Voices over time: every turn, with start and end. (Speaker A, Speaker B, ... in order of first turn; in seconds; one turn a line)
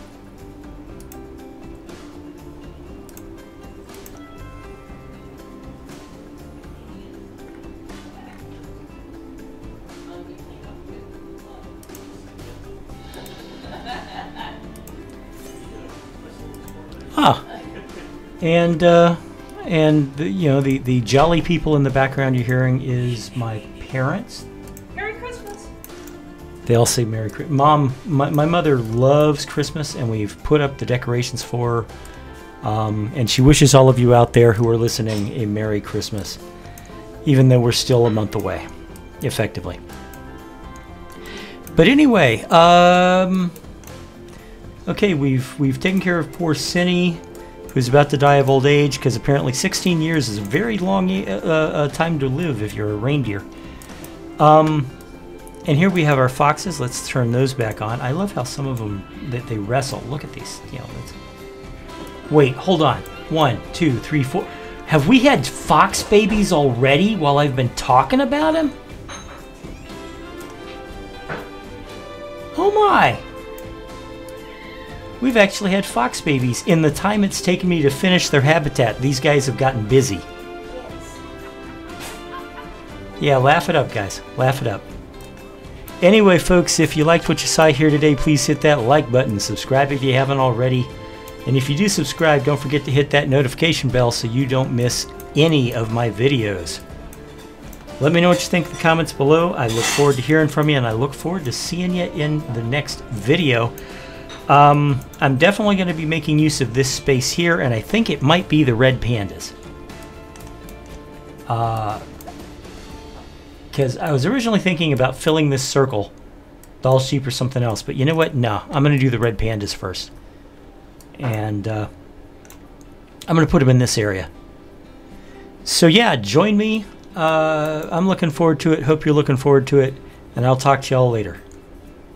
Speaker A: 6.6-8.7
Speaker A: 10.0-12.0
Speaker A: 13.5-14.3
Speaker B: 17.1-17.5
Speaker B: 18.4-24.5
Speaker A: 24.9-25.7
Speaker B: 26.6-31.9
Speaker B: 32.6-36.4
Speaker B: 37.2-38.7
Speaker B: 39.2-39.8
Speaker B: 41.7-43.6
Speaker B: 44.9-53.5
Speaker B: 54.4-54.9
Speaker B: 55.6-61.2
Speaker B: 62.3-68.8
Speaker B: 72.5-73.2
Speaker B: 75.2-80.2
Speaker A: 80.7-81.2
Speaker B: 83.2-84.8
Speaker B: 86.0-90.9
Speaker B: 91.5-96.8
Speaker B: 98.0-103.7
Speaker B: 104.5-109.5
Speaker B: 111.5-112.1
Speaker B: 113.7-116.1
Speaker B: 116.8-120.1
Speaker B: 121.2-121.9
Speaker B: 123.3-124.3
Speaker B: 125.6-131.4